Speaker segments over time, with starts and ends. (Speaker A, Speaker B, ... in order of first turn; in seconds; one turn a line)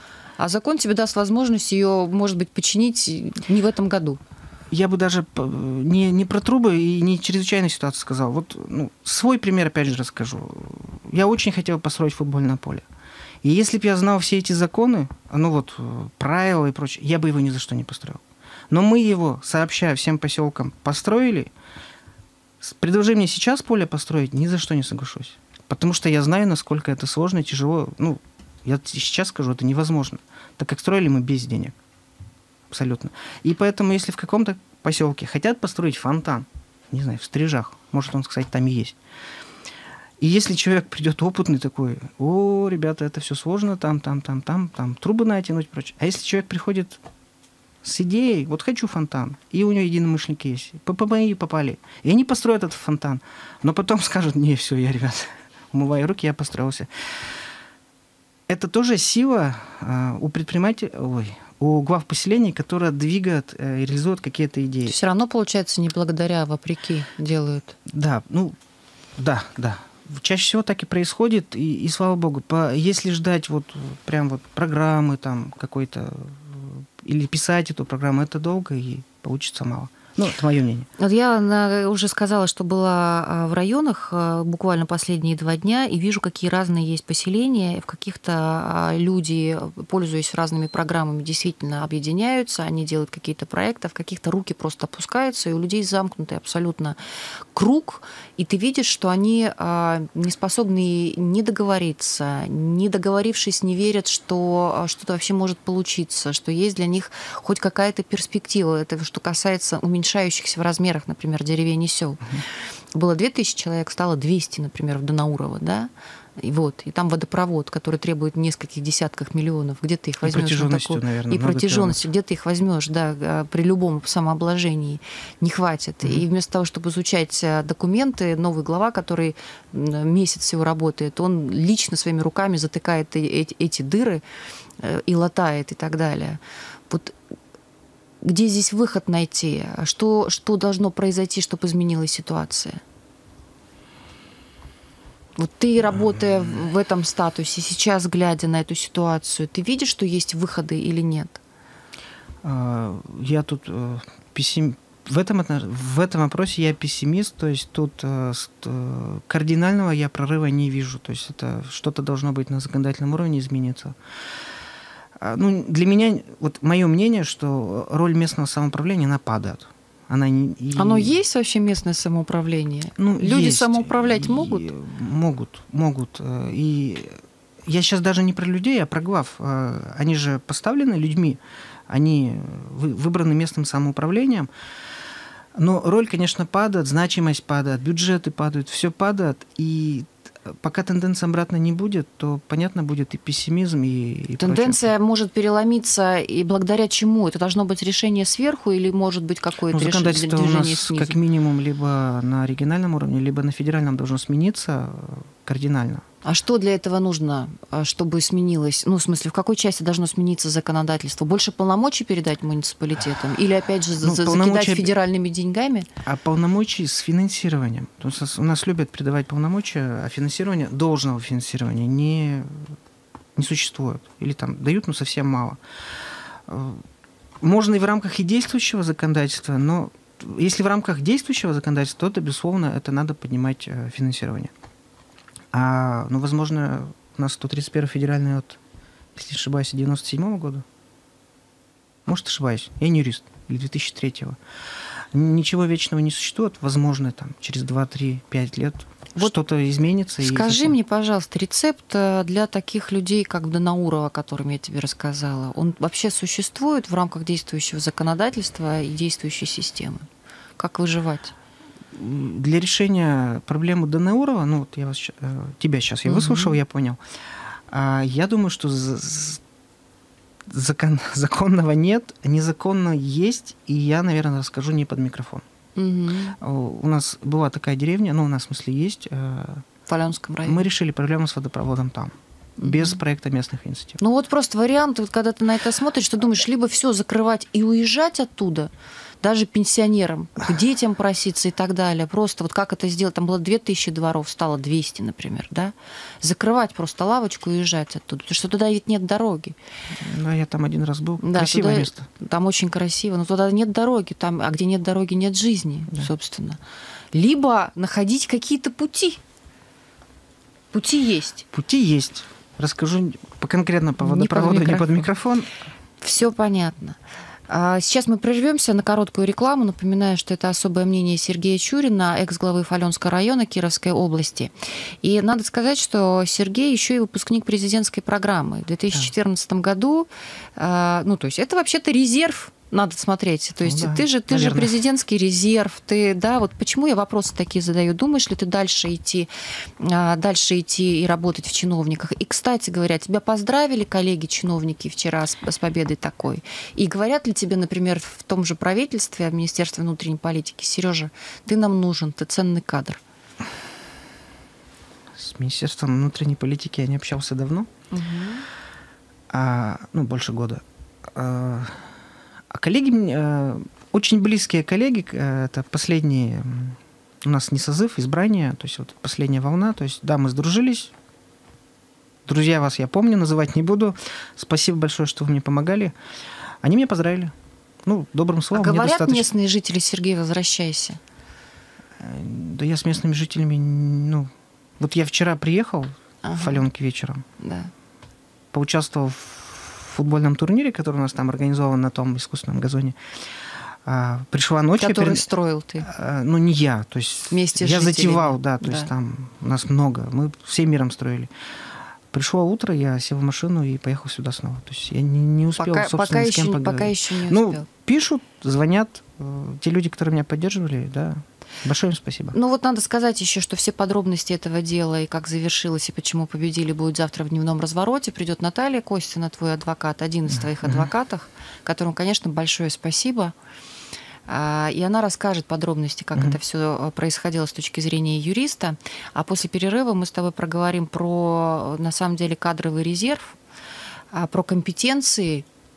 Speaker A: 0.4-4.2
Speaker B: 4.7-12.8
Speaker B: 13.4-21.5
Speaker B: 22.6-31.8
Speaker B: 32.7-39.0
Speaker B: 40.2-47.0
Speaker B: 47.8-57.3
Speaker B: 58.5-65.0
Speaker A: 64.9-67.8
Speaker B: 67.9-68.6
Speaker B: 69.2-80.9
Speaker A: 81.0-97.0
Speaker A: 97.5-112.4
Speaker A: 112.9-134.2
Speaker B: 120.2-122.0
Speaker A: 134.8-137.2
Speaker A: 138.2-142.8
Speaker A: 145.4-151.4
Speaker B: 152.4-164.0
Speaker B: 165.2-171.2
Speaker A: 170.8-174.7
Speaker B: 173.0-184.5
Speaker B: 185.6-194.8
Speaker A: 194.4-201.2
Speaker B: 199.7-206.1
Speaker A: 206.2-215.9
Speaker B: 214.0-214.9
Speaker B: 216.0-222.8
Speaker B: 223.4-225.6
Speaker B: 226.5-226.9
Speaker B: 227.4-234.5
Speaker B: 235.5-238.6
Speaker B: 239.2-240.7
Speaker B: 242.1-244.4
Speaker B: 245.1-250.8
Speaker A: 250.2-260.1
Speaker A: 260.6-261.4
Speaker B: 261.9-267.0
Speaker A: 266.1-266.6
Speaker B: 267.7-269.4
Speaker B: 270.5-275.4
Speaker A: 275.8-276.4
Speaker B: 276.4-279.7
Speaker A: 279.9-280.7
Speaker B: 280.4-284.0
Speaker A: 282.6-282.9
Speaker A: 284.0-288.7
Speaker A: 289.2-299.6
Speaker B: 300.0-302.1
Speaker A: 301.2-306.6
Speaker A: 307.1-309.2
Speaker A: 310.7-311.5
Speaker B: 311.5-315.5
Speaker A: 314.0-315.1
Speaker A: 316.0-353.0
Speaker B: 333.6-334.8
Speaker B: 355.1-357.7
Speaker A: 357.9-358.5
Speaker B: 359.3-361.9
Speaker B: 362.5-370.9
Speaker B: 372.3-375.9
Speaker B: 376.6-377.3
Speaker B: 377.9-379.3
Speaker A: 378.5-381.0
Speaker B: 382.0-387.2
Speaker A: 386.2-386.7
Speaker A: 387.4-387.7
Speaker B: 388.5-393.0
Speaker B: 393.8-395.2
Speaker A: 394.8-395.9
Speaker B: 395.8-401.3
Speaker A: 397.3-398.9
Speaker B: 402.1-412.4
Speaker A: 405.6-407.7
Speaker A: 412.3-423.3
Speaker B: 420.6-420.9
Speaker A: 424.3-433.4
Speaker A: 434.1-435.5